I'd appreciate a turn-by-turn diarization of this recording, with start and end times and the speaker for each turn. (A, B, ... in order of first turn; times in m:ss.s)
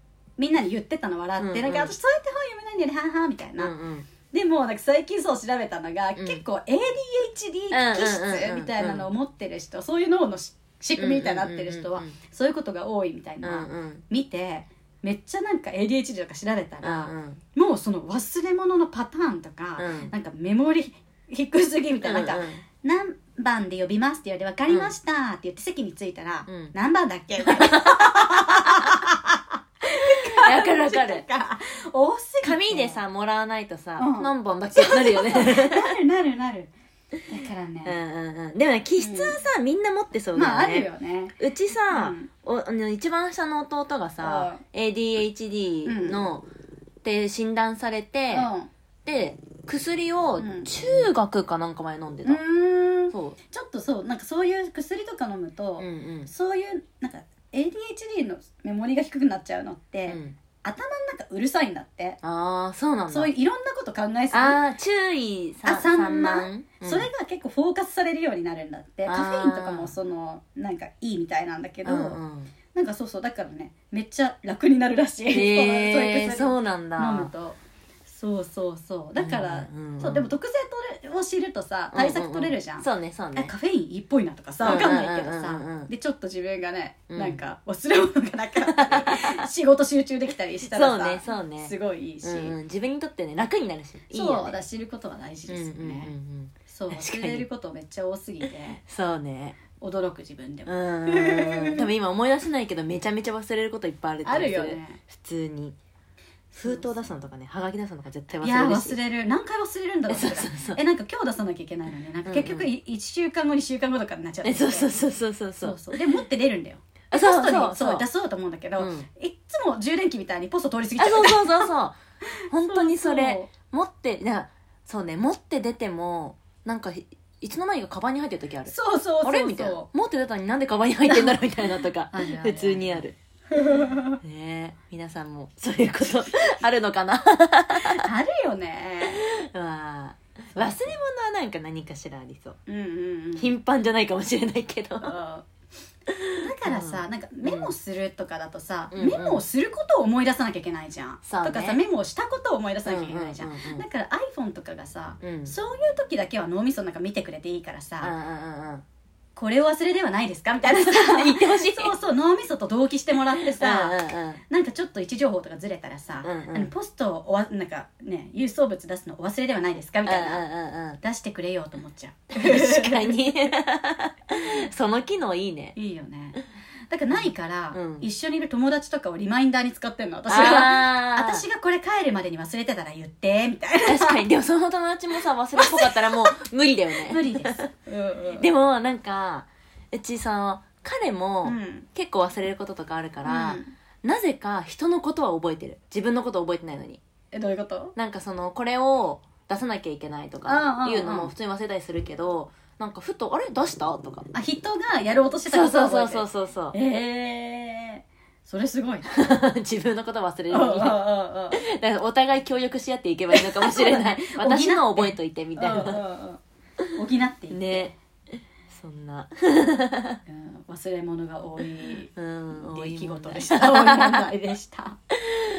0:00.4-0:03.7 A
0:01.4-0:01.9 B
0:03.6-0:04.1 B
0:04.3-0:33.0 A
0:06.2-0:06.4 B
0:07.7-0:09.1 B
0:11.0-0:12.2 B
0:13.4-0:14.0 B
0:16.8-0:17.4 B
0:19.8-0:20.1 B
0:22.0-0:22.6 B
0:26.5-0:26.7 B
0:27.4-0:28.6 B
0:30.3-0:31.2 B
0:32.4-0:35.9 B
0:34.0-0:36.7 A
0:37.3-0:38.0 A
0:37.8-0:46.4 B
0:39.0-0:39.4 A
0:40.3-0:41.4 A
0:41.9-0:42.3 A
0:44.2-0:44.6 A
0:45.9-0:46.2 A
0:47.0-0:48.5 B
0:48.3-0:48.7 A
0:49.0-0:52.4 B
0:50.4-0:50.7 A
0:52.2-1:02.2 A
0:53.1-0:53.4 B
0:55.8-0:56.3 B
1:00.1-1:00.4 B
1:02.2-1:03.3 B
1:03.1-1:04.6 A
1:04.3-1:07.1 B
1:05.6-1:12.2 A
1:09.1-1:09.9 B
1:11.8-1:12.5 B
1:12.7-1:32.6 A
1:15.3-1:17.3 B
1:19.2-1:20.3 B
1:21.9-1:23.5 B
1:24.6-1:25.9 B
1:27.1-1:27.4 B
1:28.6-1:29.4 B
1:30.7-1:34.6 B
1:34.1-1:36.1 A
1:35.5-1:37.5 B
1:36.7-1:38.8 A
1:38.4-1:39.6 B
1:39.8-1:41.9 A
1:40.7-1:45.8 B
1:44.2-1:45.0 A
1:46.5-1:49.0 B
1:46.5-1:47.0 A
1:48.4-1:55.0 A
1:50.1-1:50.8 B
1:52.2-1:52.7 B
1:54.4-1:56.0 B
1:55.6-2:01.7 A
1:57.1-1:58.0 B
1:58.8-1:59.1 B
2:01.0-2:02.0 B
2:02.5-2:13.2 B
2:02.6-2:03.5 A
2:08.7-2:09.9 A
2:11.1-2:11.5 A
2:12.1-2:14.2 A
2:14.2-2:18.1 B
2:17.8-2:19.2 A
2:19.0-2:22.6 B
2:20.5-2:21.0 A
2:22.7-2:23.5 A
2:23.4-2:25.2 B
2:25.0-2:25.5 A
2:26.1-2:27.7 B
2:26.4-2:38.1 A
2:28.9-2:29.4 B
2:31.2-2:31.8 B
2:32.8-2:33.8 B
2:35.2-2:35.6 B
2:38.0-2:38.8 B
2:39.4-2:50.5 A
2:40.7-2:41.9 B
2:43.4-2:44.4 B
2:46.2-2:46.7 B
2:50.0-2:51.0 B
2:51.0-2:53.2 A
2:52.3-2:55.8 B
2:55.8-3:04.2 A
2:57.1-2:58.1 B
3:00.3-3:01.4 B
3:03.8-3:07.7 B
3:05.6-3:06.3 A
3:07.0-3:08.5 A
3:08.4-3:17.0 B
3:11.4-3:11.9 A
3:13.2-3:13.7 A
3:17.3-3:18.0 A
3:18.0-3:24.3 B
3:20.4-3:21.3 A
3:24.3-3:29.1 A
3:25.5-3:26.8 B
3:29.1-3:36.0 B
3:30.5-3:31.6 A
3:33.3-3:36.4 A
3:37.0-3:37.9 A
3:37.5-3:40.2 B
3:40.3-3:45.0 A
3:42.2-3:44.3 B